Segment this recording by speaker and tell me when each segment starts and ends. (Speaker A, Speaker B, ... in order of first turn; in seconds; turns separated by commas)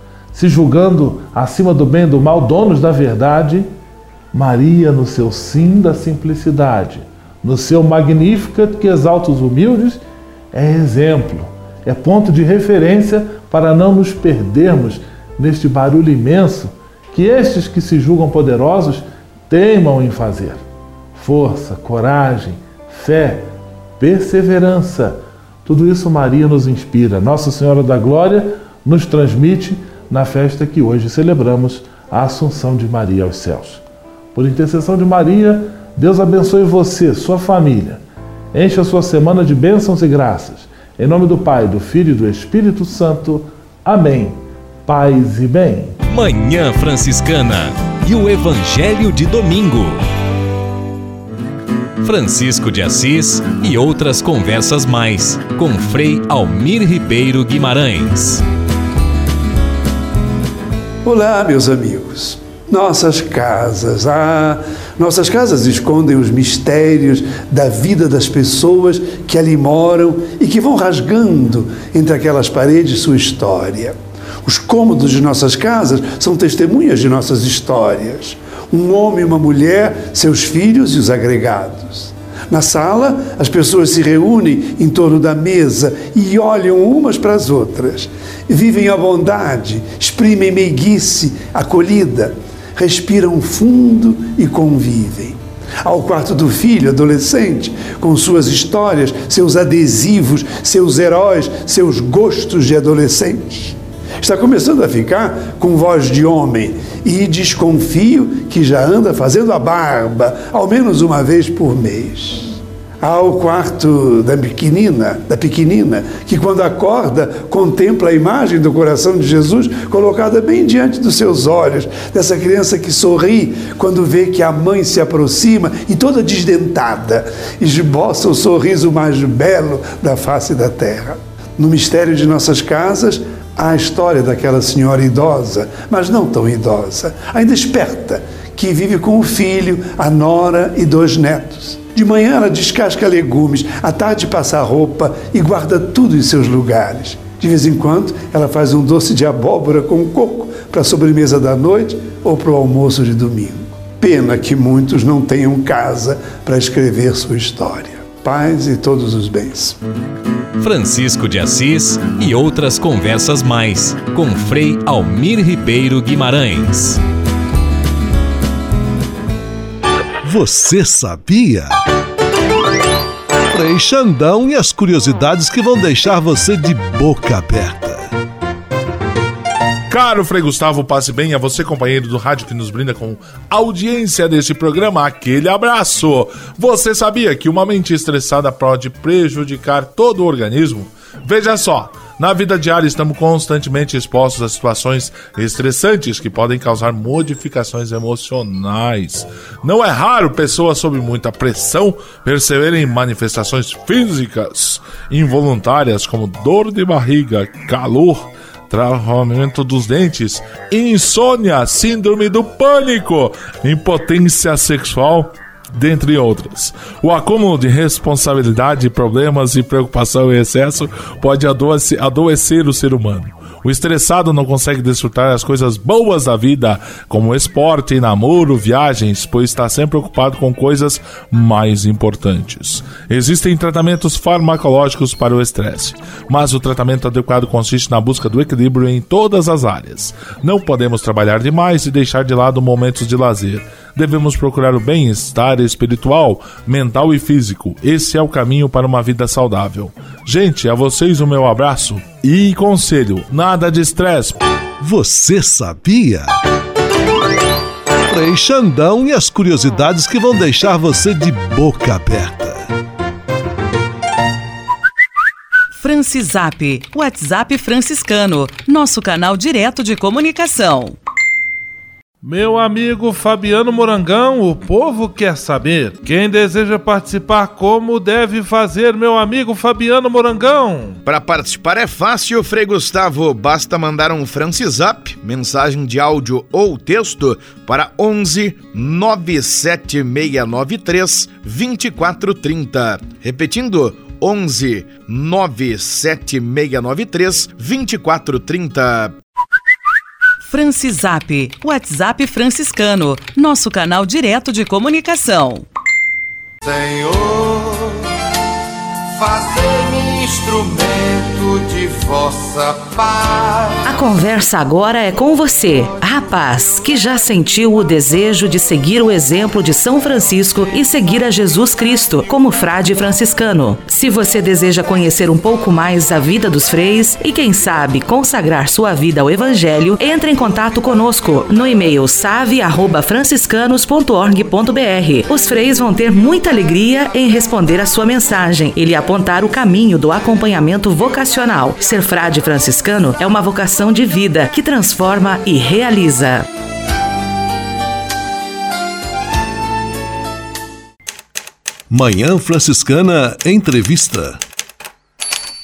Speaker A: 0.3-3.7, Speaker A: 4.3-10.0, Speaker A: 10.5-20.6, Speaker A: 21.1-33.8, Speaker A: 34.4-38.0, Speaker A: 38.5-46.0, Speaker B: 46.1-50.0, Speaker B: 52.0-58.4, Speaker C: 61.0-159.8, Speaker B: 160.6-167.0, Speaker D: 170.2-171.8, Speaker D: 173.5-178.1, Speaker E: 179.9-254.4, Speaker D: 254.8-256.4, Speaker D: 258.1-262.7, Speaker F: 265.8-271.0, Speaker A: 272.2-281.0, Speaker G: 281.1-299.1, Speaker F: 300.4-305.7, Speaker H: 306.6-308.0, Speaker H: 309.2-313.8, Speaker I: 313.9-346.4, Speaker D: 351.9-354.4